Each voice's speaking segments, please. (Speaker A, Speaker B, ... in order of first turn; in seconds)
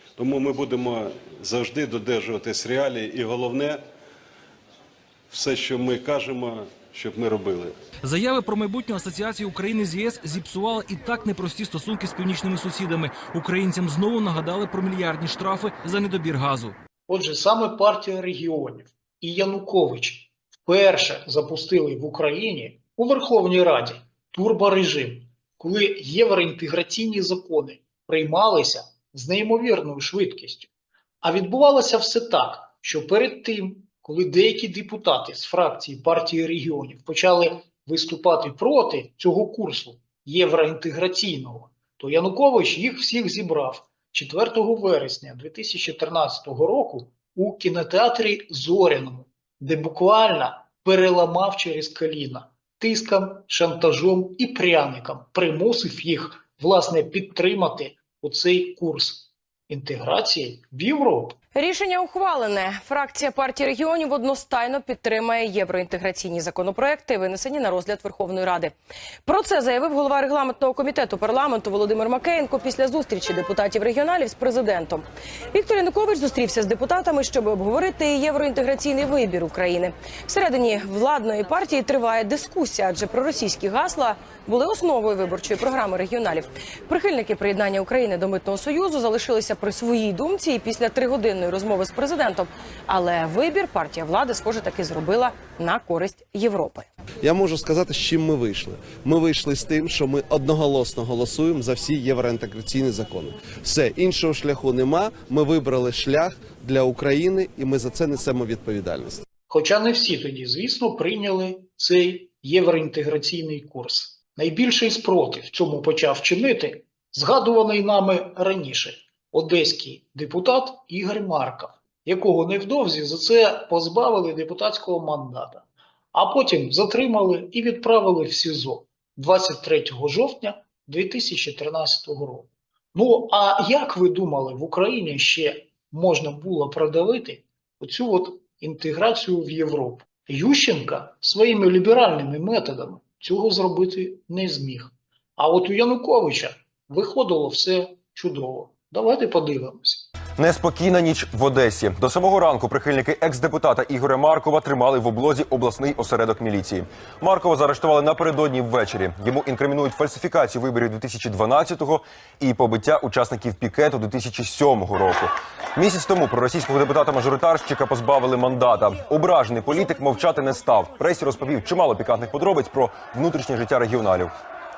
Speaker A: 0.2-3.8, 5.3-7.8
Speaker B: 8.0-16.8
Speaker C: 17.1-30.7, 31.2-61.4, 109.5-150.1
Speaker D: 61.5-68.7, 69.3-96.9
Speaker E: 97.2-109.2
Speaker F: 150.4-174.3